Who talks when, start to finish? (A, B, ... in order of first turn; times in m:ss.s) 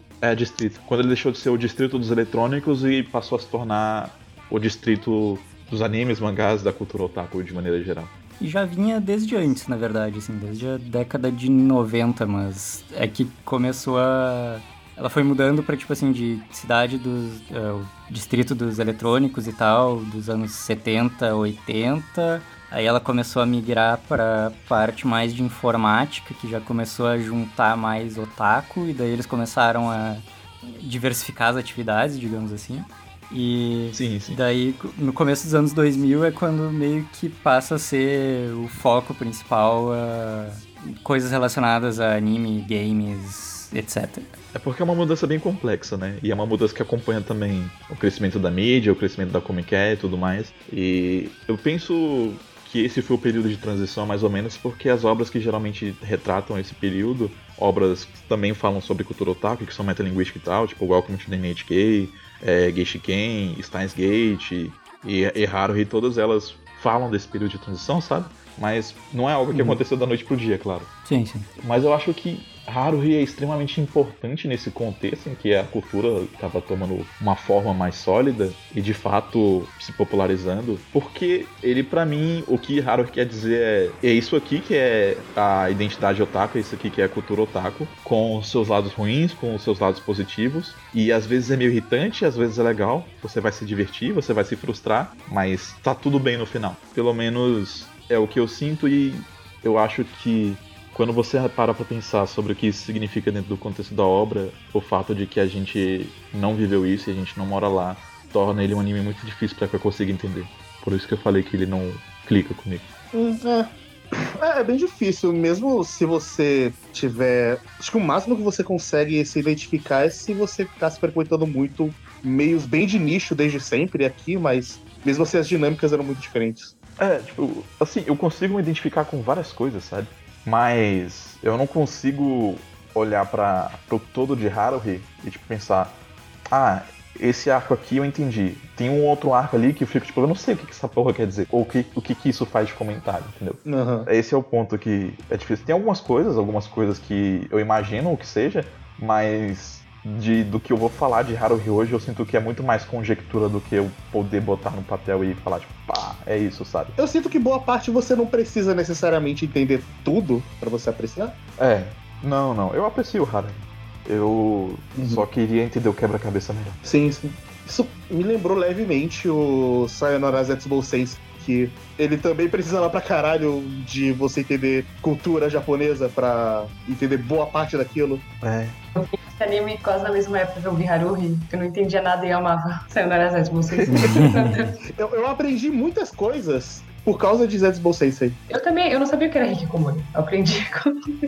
0:00.2-0:08.1 A
0:08.4-0:44.3 B
0:33.9-0:34.4 A
0:44.5-1:10.9 A
1:09.5-1:09.8 B
1:11.0-1:11.5 B
1:11.6-1:52.9 A
1:53.1-2:06.7 C
2:07.0-2:16.0 A
2:16.5-2:37.0 A
2:23.6-2:24.1 C
2:37.0-2:41.4 C
2:41.6-2:46.8 A
2:45.0-2:45.2 C
2:46.8-2:58.3 C
2:58.4-2:58.8 A
2:59.0-3:04.8 D
3:03.8-3:04.1 C
3:03.9-3:04.5 B
3:05.0-3:08.4 C
3:08.5-3:11.0 D